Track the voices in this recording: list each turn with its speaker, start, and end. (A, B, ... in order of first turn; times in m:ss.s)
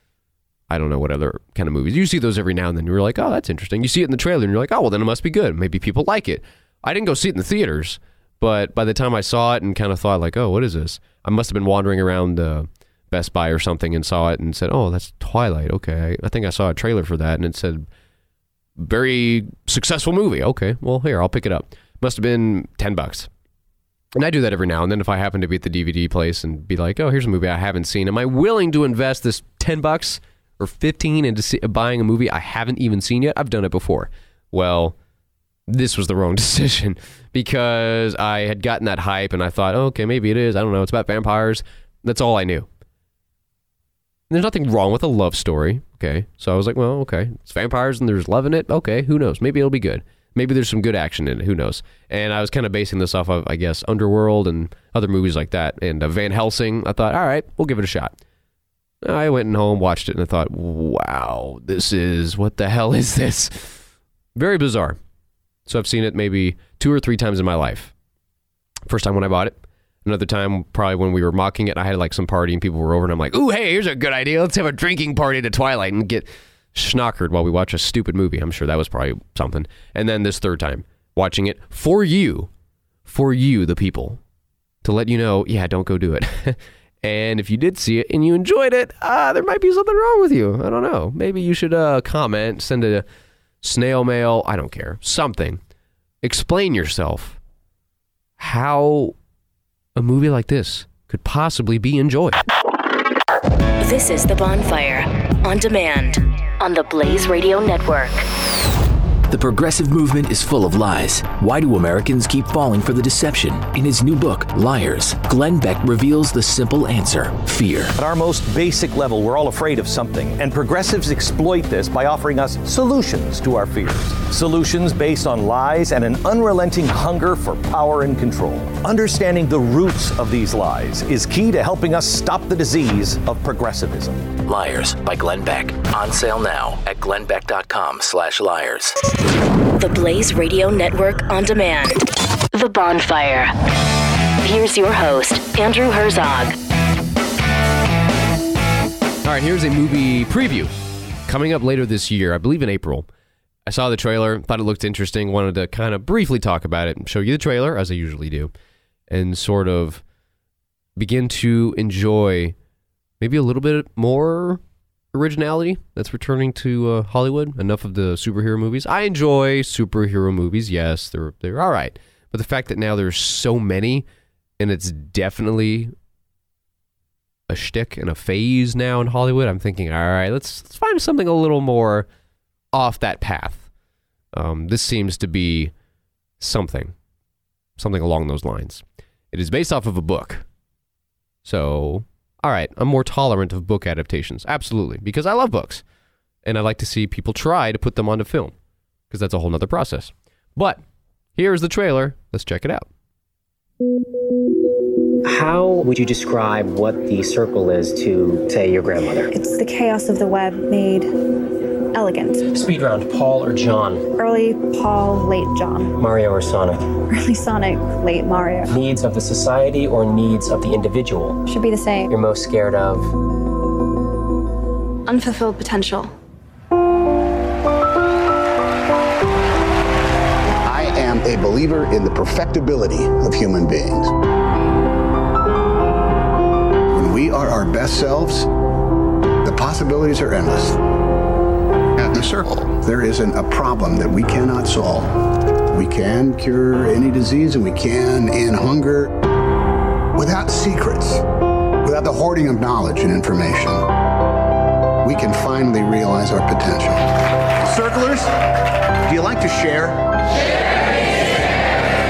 0:00.7-0:17.8 A
0:18.8-0:23.3 A
0:24.2-0:35.0 A
0:35.7-0:42.7 A
0:44.3-0:58.2 A
0:59.0-1:03.8 A
1:04.3-1:05.0 A
1:05.6-1:07.9 A
1:08.9-1:22.5 A
1:23.1-1:24.2 A
1:24.8-1:33.0 A
1:33.6-1:35.6 A
1:36.2-1:37.4 A
1:38.4-1:39.1 A
1:40.0-1:42.4 A
1:43.8-1:48.2 B
1:49.3-1:57.9 C
1:57.9-2:14.3 D
2:14.5-2:18.9 C
2:19.8-2:23.5 B
2:24.4-2:26.6 B
2:29.2-2:30.7 A
2:31.3-2:33.1 A
2:33.7-2:38.5 A
2:39.1-2:40.0 A
2:41.0-2:42.5 A
2:43.2-2:44.6 A
2:45.1-2:54.0 A
2:54.6-2:55.9 A
2:57.5-3:02.1 A
3:02.7-3:03.7 A
3:04.3-3:05.7 A
3:06.4-3:06.9 A
3:07.8-3:10.4 A
3:11.4-3:15.8 A
3:16.4-3:18.5 A
3:19.1-3:20.8 A
3:21.4-3:22.9 A
3:25.2-3:29.3 E
3:29.3-3:31.1 F
3:31.9-3:32.4 F
3:32.5-3:34.1 E
3:34.1-3:35.9 F
3:36.0-3:36.9 E
3:37.1-3:38.7 F
3:38.7-3:41.4 E
3:41.4-3:42.1 F
3:42.1-3:43.1 E
3:45.1-3:46.1 F
3:50.6-3:54.1 G
3:56.9-3:58.5 G
3:59.4-4:00.8 G
4:02.0-4:05.1 G
4:05.7-4:09.1 G
4:10.1-4:11.2 G
4:11.8-4:13.8 G
4:15.0-4:17.1 G
4:17.6-4:18.3 G
4:19.1-4:20.0 G